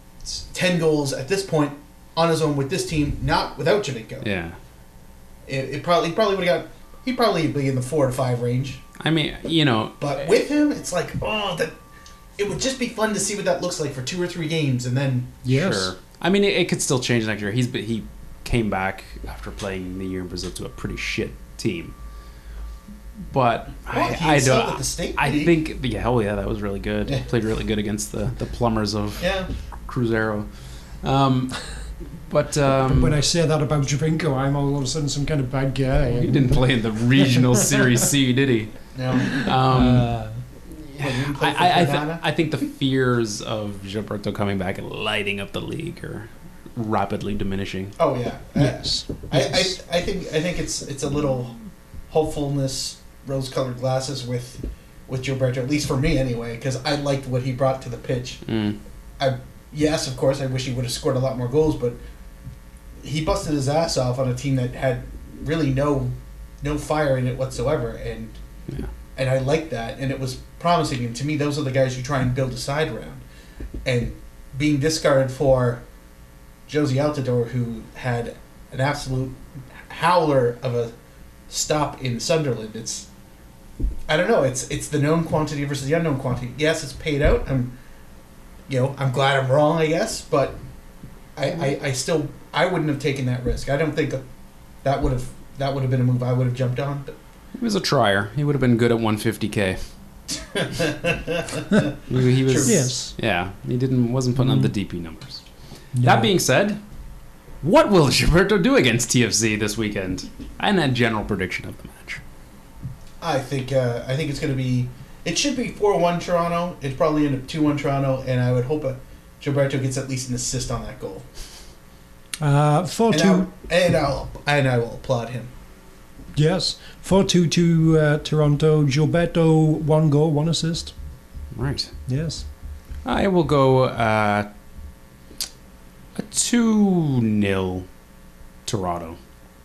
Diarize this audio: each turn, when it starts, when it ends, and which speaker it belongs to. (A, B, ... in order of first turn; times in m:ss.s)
0:00.2-0:04.2 A
0:04.2-0:04.6 B
0:05.5-0:08.8 A
0:09.0-0:10.4 B
0:10.0-0:11.8 A
0:12.4-0:15.4 A
0:15.4-0:16.0 C
0:15.5-0:22.0 B
0:23.3-0:29.3 B
0:23.9-0:25.6 A
0:29.2-0:29.5 A
0:29.9-0:30.5 B
0:31.0-0:31.6 B
0:32.3-0:33.2 B
0:32.8-0:37.9 C
0:36.1-0:40.2 B
0:38.9-0:39.4 A
0:39.3-0:40.4 C
0:40.8-0:48.0 B
0:41.0-0:42.2 A
0:48.0-0:51.6 A
0:48.6-0:49.8 C
0:52.1-0:58.4 A
0:58.4-0:58.8 B
0:59.2-1:02.0 A
1:03.0-1:08.4 A
1:09.2-1:13.2 A
1:13.8-1:15.8 A
1:16.7-1:20.9 A
1:21.5-1:23.1 A
1:24.1-1:27.7 A
1:28.7-1:30.6 A
1:31.4-1:34.2 A
1:34.8-1:37.2 A
1:37.6-1:39.8 B
1:40.4-1:42.8 A
1:42.1-1:45.4 B
1:42.6-1:43.1 C
1:44.4-1:44.7 C
1:46.0-1:46.3 C
1:46.0-1:46.8 B
1:47.6-1:52.2 B
1:53.2-2:01.3 A
2:02.4-2:03.5 C
2:03.1-2:05.5 A
2:06.4-2:10.9 C
2:11.5-2:11.9 B
2:12.1-2:12.4 C
2:13.0-2:14.5 B
2:16.2-2:17.9 B
2:18.7-2:19.2 B